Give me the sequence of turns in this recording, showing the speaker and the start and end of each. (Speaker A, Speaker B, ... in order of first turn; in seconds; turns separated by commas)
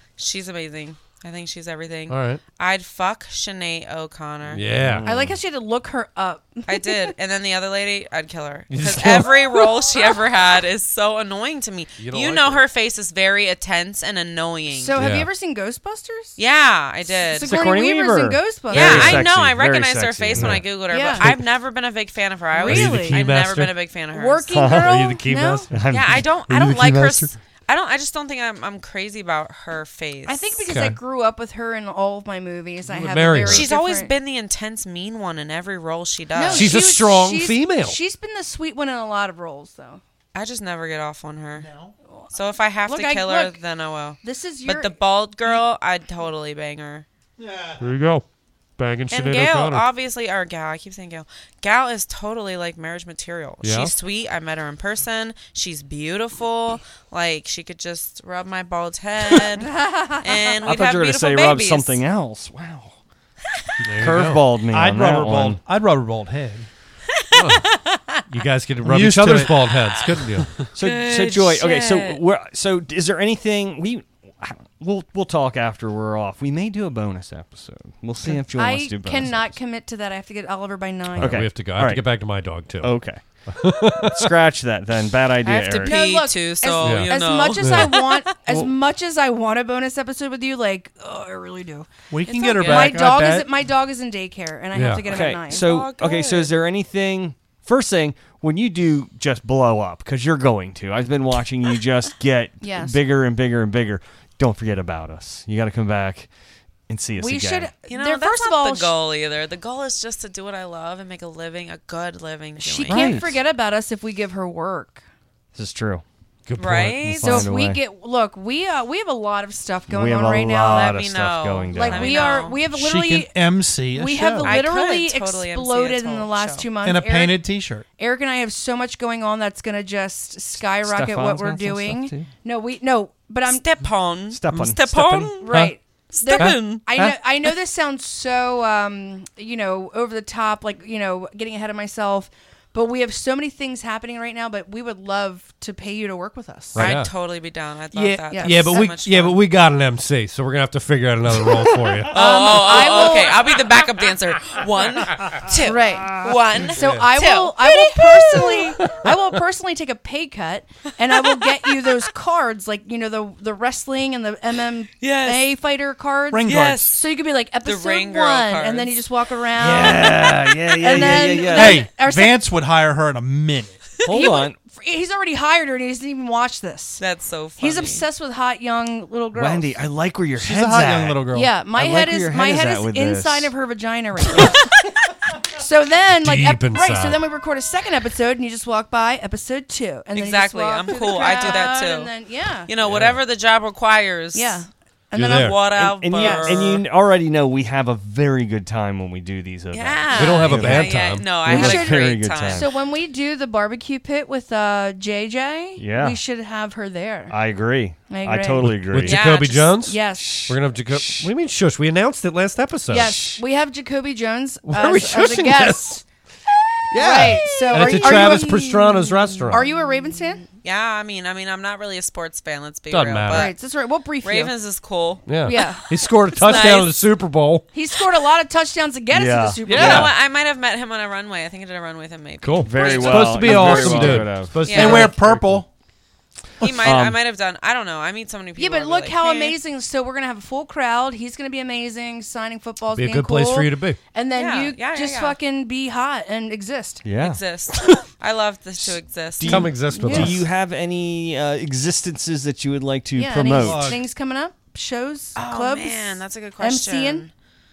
Speaker A: 0.2-4.6, Speaker B: 2.1-2.4, Speaker B: 4.5-5.0, Speaker C: 4.8-5.4, Speaker D: 5.0-7.1, Speaker A: 6.7-14.9, Speaker B: 8.7-9.4, Speaker B: 12.0-12.6, Speaker D: 14.7-16.4, Speaker B: 14.9-15.3, Speaker A: 16.4-17.5, Speaker D: 17.1-19.2, Speaker C: 17.4-20.6, Speaker A: 18.7-24.5, Speaker B: 20.4-20.6, Speaker D: 20.9-21.3, Speaker D: 22.6-23.2, Speaker B: 22.6-23.8, Speaker D: 24.1-25.7, Speaker C: 24.5-25.2, Speaker B: 24.6-27.3, Speaker C: 25.7-27.3, Speaker A: 25.9-30.6, Speaker D: 30.3-34.1, Speaker B: 30.7-31.0, Speaker B: 32.9-33.7, Speaker A: 33.5-36.8, Speaker D: 36.4-40.0, Speaker B: 36.5-38.0, Speaker A: 40.3-41.7, Speaker E: 41.6-41.9, Speaker D: 42.1-43.6, Speaker A: 42.3-47.1, Speaker D: 44.2-45.0, Speaker E: 47.4-47.8, Speaker B: 47.8-48.2, Speaker B: 48.8-49.9, Speaker A: 49.1-62.0, Speaker B: 53.6-53.9, Speaker D: 59.6-60.5, Speaker C: 60.6-63.0, Speaker B: 63.8-64.5, Speaker C: 64.0-65.6, Speaker E: 64.1-66.7, Speaker B: 67.3-67.7, Speaker A: 67.4-68.2, Speaker B: 68.3-70.5, Speaker E: 68.8-69.7, Speaker A: 69.7-70.2, Speaker C: 70.8-79.5, Speaker A: 70.8-72.2, Speaker D: 78.5-81.4, Speaker B: 81.1-83.0, Speaker C: 81.2-82.1, Speaker C: 82.8-83.2, Speaker B: 83.5-84.3, Speaker C: 84.0-86.0, Speaker A: 85.4-88.2, Speaker D: 85.8-95.7, Speaker B: 86.8-88.0, Speaker E: 92.1-93.5, Speaker A: 92.3-92.9, Speaker B: 94.7-95.1, Speaker C: 95.0-106.3, Speaker A: 95.5-96.5, Speaker D: 102.6-103.0, Speaker C: 106.9-107.7, Speaker D: 107.2-108.9, Speaker A: 107.9-113.2, Speaker D: 112.6-115.0, Speaker C: 112.9-113.4, Speaker C: 115.5-116.0, Speaker B: 116.5-117.2, Speaker A: 116.6-117.5, Speaker C: 117.0-117.8, Speaker D: 117.2-121.0, Speaker C: 119.9-122.3, Speaker A: 120.7-122.6, Speaker D: 121.7-123.3, Speaker E: 122.6-124.6, Speaker D: 123.9-133.6, Speaker A: 124.4-126.7, Speaker E: 126.8-127.9, Speaker C: 130.7-132.3, Speaker A: 133.5-136.8, Speaker C: 134.3-135.4, Speaker D: 135.4-146.9, Speaker B: 136.4-137.1, Speaker B: 146.8-147.1, Speaker A: 146.8-149.4, Speaker B: 147.9-152.4, Speaker D: 148.3-148.9, Speaker D: 152.1-153.4, Speaker A: 152.1-158.8, Speaker D: 155.6-172.4, Speaker B: 156.7-157.1, Speaker A: 161.3-161.8, Speaker A: 165.0-165.5, Speaker E: 166.3-166.9, Speaker A: 166.5-166.9, Speaker A: 167.6-169.0, Speaker C: 169.6-171.9, Speaker A: 169.8-170.3, Speaker E: 171.4-173.8, Speaker C: 174.0-174.6, Speaker D: 174.1-177.0, Speaker A: 177.0-178.1, Speaker D: 177.6-179.7, Speaker C: 179.3-183.5, Speaker E: 180.4-181.6, Speaker D: 181.3-184.8, Speaker D: 185.4-192.7, Speaker B: 186.2-187.2, Speaker A: 190.1-192.1, Speaker A: 192.7-194.6, Speaker B: 192.9-193.2, Speaker D: 194.3-196.7, Speaker B: 195.1-195.6, Speaker A: 195.2-196.8, Speaker C: 195.7-202.7, Speaker A: 199.7-202.7, Speaker B: 200.1-201.3, Speaker D: 201.5-207.3, Speaker C: 205.8-206.2, Speaker C: 207.3-209.2, Speaker D: 208.1-208.8, Speaker B: 208.6-213.2, Speaker A: 209.0-209.8, Speaker D: 209.8-210.4, Speaker C: 210.2-211.3, Speaker D: 212.9-216.0, Speaker C: 213.0-213.4, Speaker B: 214.7-216.0, Speaker B: 216.9-219.7, Speaker D: 216.9-220.4, Speaker C: 217.7-218.1, Speaker A: 220.6-223.6, Speaker B: 222.9-223.5, Speaker D: 223.3-224.5, Speaker A: 224.2-225.2, Speaker B: 225.3-227.7, Speaker D: 225.4-226.8, Speaker A: 226.4-226.9, Speaker D: 227.7-230.1, Speaker C: 229.1-230.1, Speaker B: 229.7-230.1, Speaker A: 229.7-235.1, Speaker B: 232.4-235.4, Speaker C: 232.6-235.6, Speaker E: 234.6-235.7, Speaker C: 236.6-237.2, Speaker A: 236.6-239.6, Speaker D: 238.6-247.0, Speaker B: 242.9-244.0, Speaker A: 244.3-245.4, Speaker C: 247.0-247.4, Speaker A: 247.2-249.7, Speaker C: 248.8-254.0, Speaker B: 249.4-250.5, Speaker D: 249.9-250.4, Speaker D: 253.2-257.3, Speaker E: 253.6-254.0, Speaker A: 255.4-257.3